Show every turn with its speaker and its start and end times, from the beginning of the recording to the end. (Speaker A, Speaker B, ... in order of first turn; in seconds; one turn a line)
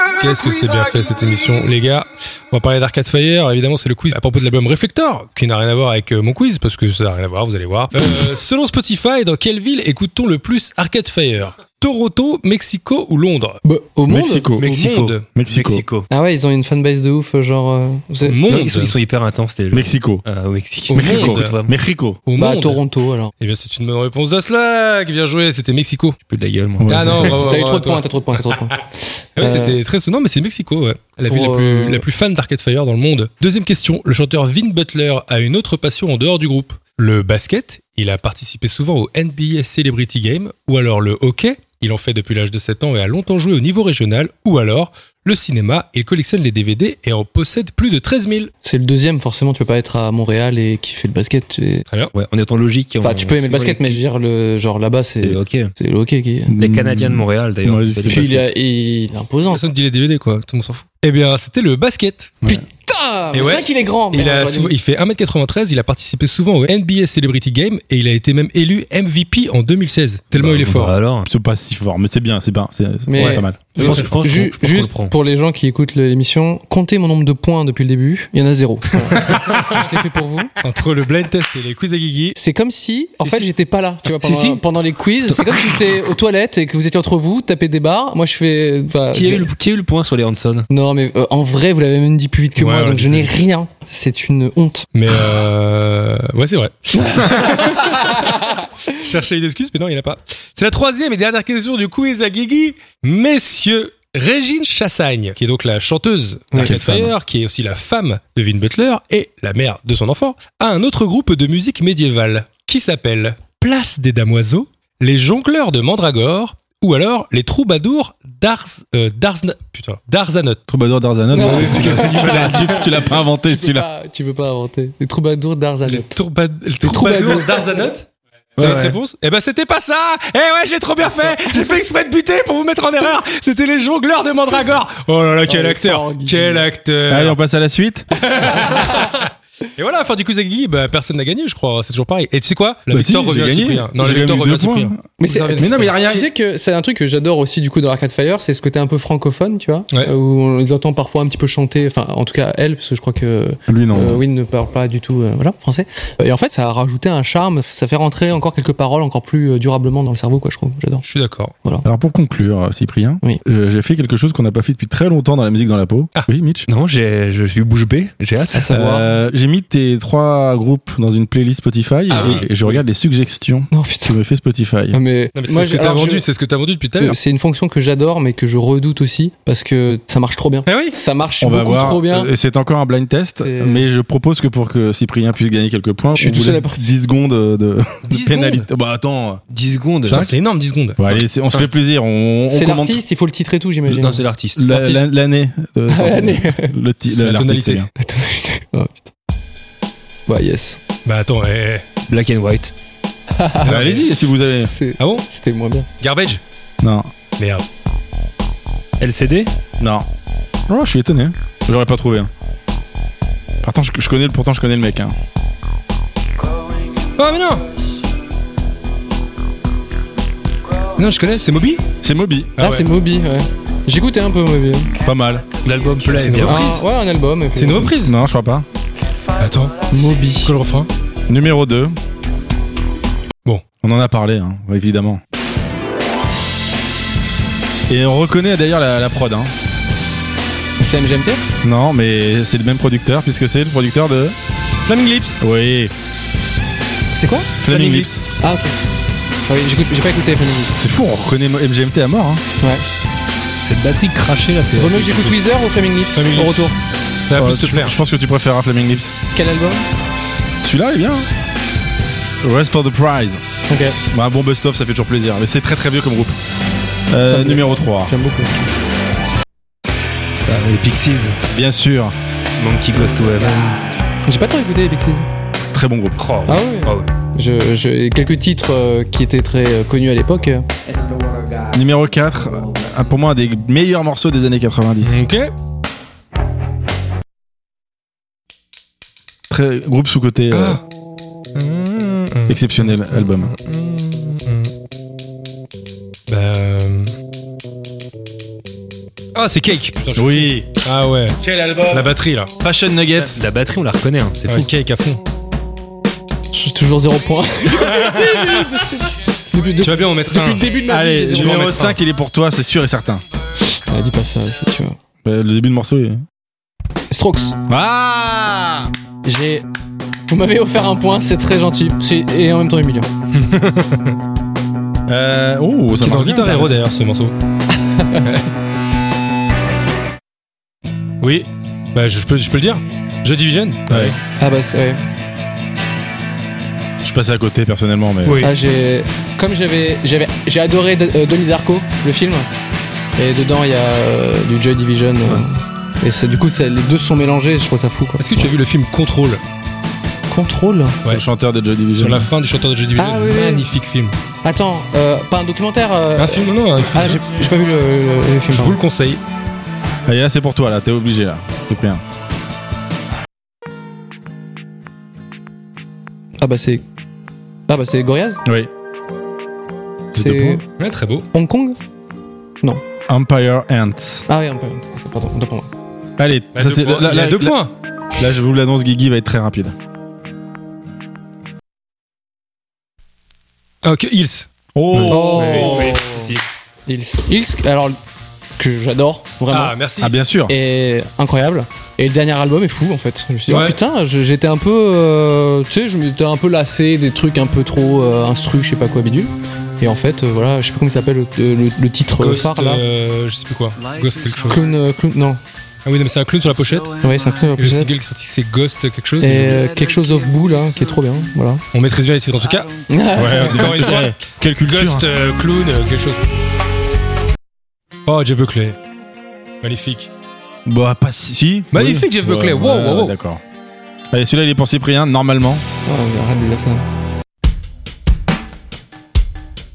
Speaker A: 0.2-13.6
Speaker B: 13.6-14.5
Speaker C: 14.1-14.7
Speaker D: 14.6-16.1
Speaker A: 14.6-15.2
Speaker C: 15.3-15.8
Speaker B: 16.1-18.4
Speaker A: 18.2-18.9
Speaker D: 18.5-21.7
Speaker C: 19.7-20.2
Speaker A: 20.9-21.5
Speaker C: 20.9-22.2
Speaker A: 22.2-22.8
Speaker B: 22.4-23.3
Speaker A: 23.4-26.2
Speaker D: 26.3-27.4
Speaker C: 26.8-27.4
Speaker A: 26.9-28.8
Speaker B: 27.2-29.8
Speaker A: 29.4-48.5
Speaker B: 31.3-32.0
Speaker B: 48.6-51.9
Speaker A: 51.9-52.1
Speaker D: 52.1-54.0
Speaker B: 53.0-56.5
Speaker D: 55.2-55.7
Speaker C: 56.5-58.5
Speaker D: 56.6-58.4
Speaker B: 58.1-59.6
Speaker A: 59.5-62.4
Speaker B: 62.4-64.7
Speaker A: 63.3-70.9
Speaker D: 70.3-71.3
Speaker C: 71.2-74.0
Speaker B: 73.1-80.5
Speaker A: 73.2-74.4
Speaker D: 73.7-75.1
Speaker A: 79.1-79.8
Speaker A: 80.6-82.3
Speaker B: 82.3-89.5
Speaker D: 84.2-84.6
Speaker D: 85.4-85.8
Speaker D: 89.1-90.7
Speaker B: 90.7-94.9
Speaker A: 92.6-93.3
Speaker A: 94.9-120.6
Speaker B: 97.0-97.8
Speaker C: 106.5-107.1
Speaker C: 120.7-123.9
Speaker B: 121.3-126.2
Speaker D: 121.4-122.5
Speaker A: 121.6-122.9
Speaker A: 125.8-137.4
Speaker B: 126.8-127.7
Speaker C: 128.6-128.9
Speaker B: 135.4-136.7
Speaker C: 137.1-138.1
Speaker A: 138.1-145.9
Speaker C: 142.9-146.3
Speaker B: 145.2-161.0
Speaker C: 153.7-154.2
Speaker A: 161.0-161.5
Speaker C: 161.8-166.7
Speaker D: 166.7-168.7
Speaker B: 168.5-169.1
Speaker C: 168.7-175.0
Speaker A: 172.1-172.4
Speaker D: 172.1-172.8
Speaker B: 173.7-174.2
Speaker B: 174.9-176.2
Speaker A: 175.3-177.2
Speaker B: 177.0-182.3
Speaker A: 180.7-181.0
Speaker C: 181.4-189.4
Speaker B: 183.4-183.9
Speaker B: 186.2-186.9
Speaker A: 188.1-188.7
Speaker D: 189.5-190.3
Speaker C: 190.1-190.3
Speaker A: 190.1-191.2
Speaker C: 191.0-193.0
Speaker B: 192.5-195.1
Speaker D: 193.9-194.7
Speaker C: 194.5-197.9
Speaker B: 195.9-196.7
Speaker A: 197.2-197.9
Speaker B: 198.0-199.1
Speaker B: 200.3-200.8
Speaker A: 201.0-201.8
Speaker D: 202.1-202.7
Speaker B: 203.3-205.9
Speaker A: 203.6-204.1
Speaker C: 203.6-204.7
Speaker A: 205.0-205.2
Speaker A: 206.0-206.4
Speaker C: 206.8-207.1
Speaker A: 207.4-207.6
Speaker D: 209.0-209.5
Speaker C: 209.8-210.1
Speaker C: 210.7-212.3
Speaker C: 213.6-215.1
Speaker A: 217.2-217.6
Speaker A: 220.9-221.8
Speaker C: 222.0-222.5
Speaker A: 222.6-222.9
Speaker B: 222.6-224.9
Speaker C: 225.0-225.4
Speaker D: 225.6-226.8
Speaker A: 226.1-226.8
Speaker B: 226.4-227.9
Speaker A: 227.5-228.2
Speaker C: 227.8-228.7
Speaker A: 229.4-229.8
Speaker B: 229.9-230.5
Speaker A: 230.4-230.9
Speaker C: 231.3-232.0
Speaker C: 233.8-235.2
Speaker C: 237.9-239.5
Speaker B: 240.8-241.4
Speaker C: 241.6-244.3
Speaker A: 244.8-245.4
Speaker C: 245.4-245.9
Speaker B: 247.1-247.5
Speaker C: 247.6-248.3
Speaker A: 247.7-248.2
Speaker B: 248.4-248.7
Speaker B: 249.5-250.7
Speaker C: 250.8-252.4
Speaker D: 253.6-255.4
Speaker B: 254.7-256.8
Speaker A: 256.1-256.7
Speaker A: 257.2-258.0
Speaker C: 257.4-259.1
Speaker B: 259.3-259.8
Speaker C: 260.6-261.3
Speaker C: 262.4-263.4
Speaker B: 263.7-264.0
Speaker C: 264.1-266.4
Speaker C: 267.1-268.1
Speaker B: 267.2-268.7
Speaker D: 270.4-271.4
Speaker C: 271.5-272.1
Speaker D: 272.6-273.8
Speaker B: 274.2-275.2
Speaker C: 275.7-276.2
Speaker D: 276.2-277.1
Speaker B: 276.4-280.6
Speaker C: 281.7-285.2
Speaker A: 285.0-285.5
Speaker C: 289.5-290.8
Speaker A: 290.5-290.8
Speaker A: 291.5-294.7
Speaker C: 292.5-293.5
Speaker A: 296.3-297.1
Speaker A: 299.3-302.5
Speaker C: 300.1-300.7
Speaker C: 301.4-303.4
Speaker D: 303.2-304.7
Speaker A: 304.5-305.2
Speaker B: 306.5-311.7
Speaker A: 307.7-308.7
Speaker A: 309.8-312.0
Speaker C: 310.9-313.2
Speaker B: 313.7-314.9
Speaker C: 315.2-316.2
Speaker B: 317.1-317.6
Speaker C: 317.7-318.9
Speaker B: 319.2-319.6
Speaker B: 320.3-323.1
Speaker A: 323.3-324.1
Speaker C: 325.1-326.9
Speaker A: 326.0-327.4
Speaker B: 327.7-328.3
Speaker A: 331.2-334.1
Speaker C: 333.9-334.2
Speaker B: 334.4-335.0
Speaker C: 337.0-338.5
Speaker D: 338.2-338.5
Speaker B: 338.4-342.5
Speaker B: 343.2-348.5
Speaker A: 348.2-349.4
Speaker B: 350.3-351.0
Speaker C: 351.0-352.3
Speaker A: 351.9-354.1
Speaker B: 353.0-353.7
Speaker B: 354.4-358.8
Speaker A: 356.2-357.2
Speaker A: 358.5-359.2
Speaker C: 360.1-362.0
Speaker B: 366.4-366.8
Speaker B: 367.7-368.4
Speaker C: 368.4-368.7
Speaker B: 370.1-370.6
Speaker C: 370.1-370.6
Speaker A: 370.8-371.3
Speaker B: 371.3-371.8
Speaker C: 373.1-374.2
Speaker B: 374.3-375.7
Speaker C: 376.2-377.6
Speaker A: 376.5-377.7
Speaker C: 378.1-379.7
Speaker A: 383.8-384.5
Speaker C: 384.7-386.0
Speaker D: 384.9-386.4
Speaker B: 385.1-386.2
Speaker B: 386.9-387.9
Speaker B: 388.6-389.7
Speaker A: 389.5-390.1
Speaker C: 390.0-390.5
Speaker B: 390.5-402.8
Speaker A: 393.5-393.8
Speaker A: 402.2-404.7
Speaker B: 404.4-405.4
Speaker A: 405.8-407.0
Speaker B: 407.0-407.9
Speaker A: 407.6-409.6
Speaker B: 409.2-411.6
Speaker A: 411.7-412.7
Speaker B: 412.9-413.7
Speaker C: 413.1-415.1
Speaker A: 413.4-416.2
Speaker A: 418.1-418.8
Speaker A: 419.6-420.1
Speaker C: 420.6-423.4
Speaker A: 421.7-423.1
Speaker C: 424.1-425.6
Speaker B: 425.9-426.8